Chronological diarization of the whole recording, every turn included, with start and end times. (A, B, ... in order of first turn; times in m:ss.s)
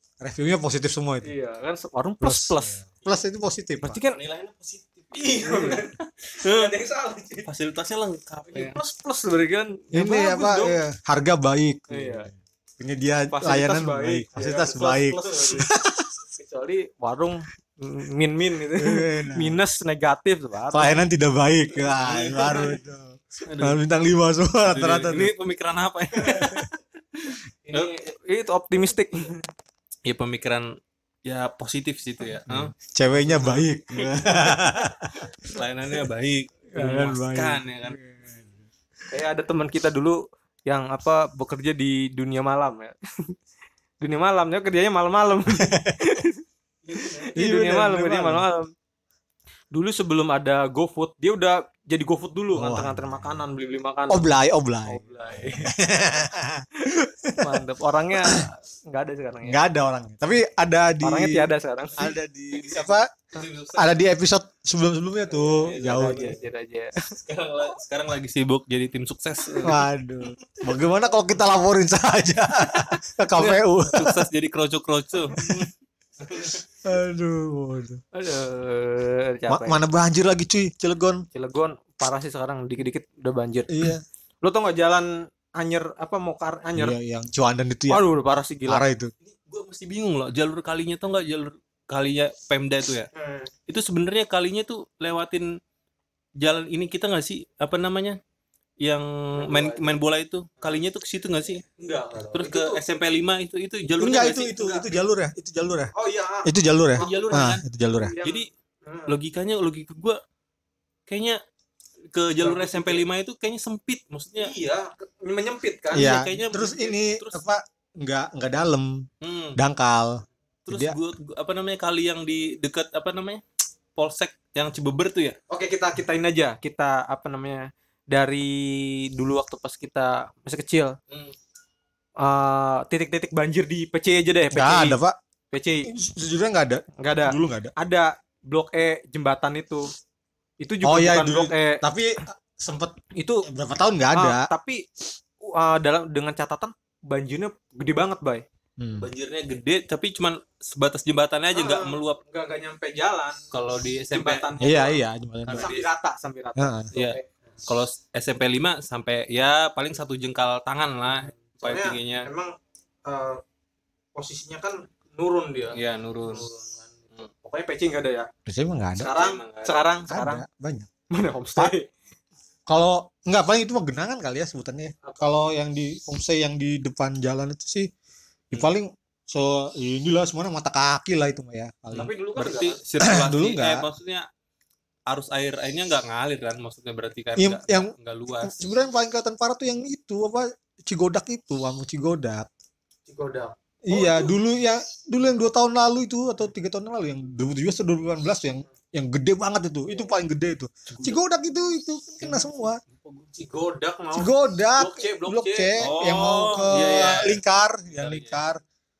0:00.2-0:01.3 A
0:01.2-0:02.8 B
0:02.2-0:04.0 A
0:03.8-0:04.2 B
0:04.1-0:06.7 C
0:05.1-0:07.5 B
0:07.4-0:08.8 C
0:08.5-0:10.8 B
0:09.9-0:16.1 A
0:11.9-0:12.3 B
0:13.3-0:15.7 B
0:16.3-0:21.0 B
0:18.8-0:19.6 A
0:20.7-0:25.3 A
0:21.8-0:22.8 C
0:23.4-0:23.8 C
0:24.7-0:28.0 C
0:26.3-0:26.6 A
0:27.6-0:29.4 B
0:30.0-0:30.7 C
0:31.2-0:34.4 C
0:32.5-0:35.3 A
0:35.4-0:38.0 C
0:36.7-0:38.6 A
0:39.1-0:43.3 B
0:44.0-0:46.4 B
0:45.5-0:46.2 A
0:46.9-0:48.7 B
0:47.3-0:48.4 A
0:49.7-0:54.2 B
0:52.5-0:53.4 A
0:54.1-0:58.5 A
0:54.8-0:55.7 B
0:56.8-0:59.6 B
0:59.4-1:03.1 A
1:01.0-1:02.1 B
1:02.5-1:03.9 C
1:03.7-1:06.4 A
1:05.6-1:07.2 B
1:05.6-1:06.4 C
1:07.2-1:09.8 C
1:09.6-1:14.3 A
1:13.3-1:15.5 C
1:15.3-1:15.7 A
1:15.4-1:15.6 B
1:16.2-1:16.6 C
1:16.8-1:18.0 A
1:18.1-1:19.8 B
1:19.5-1:21.2 A
1:21.3-1:23.9 B
1:23.7-1:24.0 A
1:24.4-1:27.0 B
1:26.8-1:28.0 A
1:27.9-1:28.8 B
1:28.7-1:29.1 A
1:29.2-1:33.1 C
1:33.1-1:33.5 B
1:33.7-1:35.5 C
1:36.4-1:38.2 C
1:38.8-1:41.6 C
1:39.4-1:40.0 B
1:40.6-1:40.8 B
1:41.8-1:42.8 B
1:42.3-1:44.7 C
1:44.0-1:45.9 A
1:45.9-1:47.4 B
1:46.4-1:48.1 A
1:47.0-1:47.6 C
1:48.0-1:49.1 B
1:48.2-1:48.5 C
1:49.1-1:50.2 C
1:51.1-1:51.4 C
1:52.1-1:54.5 C
1:52.4-1:53.0 B
1:54.4-1:56.1 B
1:55.9-2:01.0 A
1:56.0-1:57.4 C
1:59.2-1:59.6 C
2:00.6-2:03.4 C
2:04.0-2:05.4 C
2:05.5-2:11.0 B
2:11.1-2:11.3 C
2:12.2-2:15.0 B
2:14.5-2:15.2 A
2:15.5-2:15.9 B
2:15.8-2:17.7 A
2:17.0-2:19.9 B
2:20.6-2:21.8 B
2:20.8-2:24.5 A
2:23.1-2:23.5 B
2:24.1-2:24.8 B
2:25.4-2:28.4 B
2:28.8-2:29.1 A
2:29.0-2:32.2 C
2:31.5-2:33.5 B
2:33.5-2:34.5 C
2:34.1-2:37.3 B
2:34.6-2:35.7 A
2:35.4-2:35.8 C
2:36.6-2:36.9 A
2:36.9-2:42.3 C
2:41.1-2:42.5 B
2:43.0-2:43.4 B
2:44.1-2:48.3 B
2:45.7-2:46.5 C
2:48.5-2:49.2 A
2:49.0-2:50.4 B
2:49.1-2:49.9 C
2:50.1-2:50.9 A
2:51.1-2:51.9 B
2:52.7-2:57.9 A
2:55.0-2:55.3 B
2:58.5-3:02.1 A
3:01.9-3:02.8 B
3:01.9-3:04.2 C
3:03.0-3:03.9 A
3:05.1-3:08.5 C
3:07.4-3:12.5 A
3:13.1-3:14.3 B
3:13.8-3:22.8 A
3:20.9-3:21.2 C
3:22.2-3:23.3 C
3:23.3-3:25.7 B
3:24.2-3:28.6 A
3:25.8-3:27.4 C
3:27.9-3:28.4 C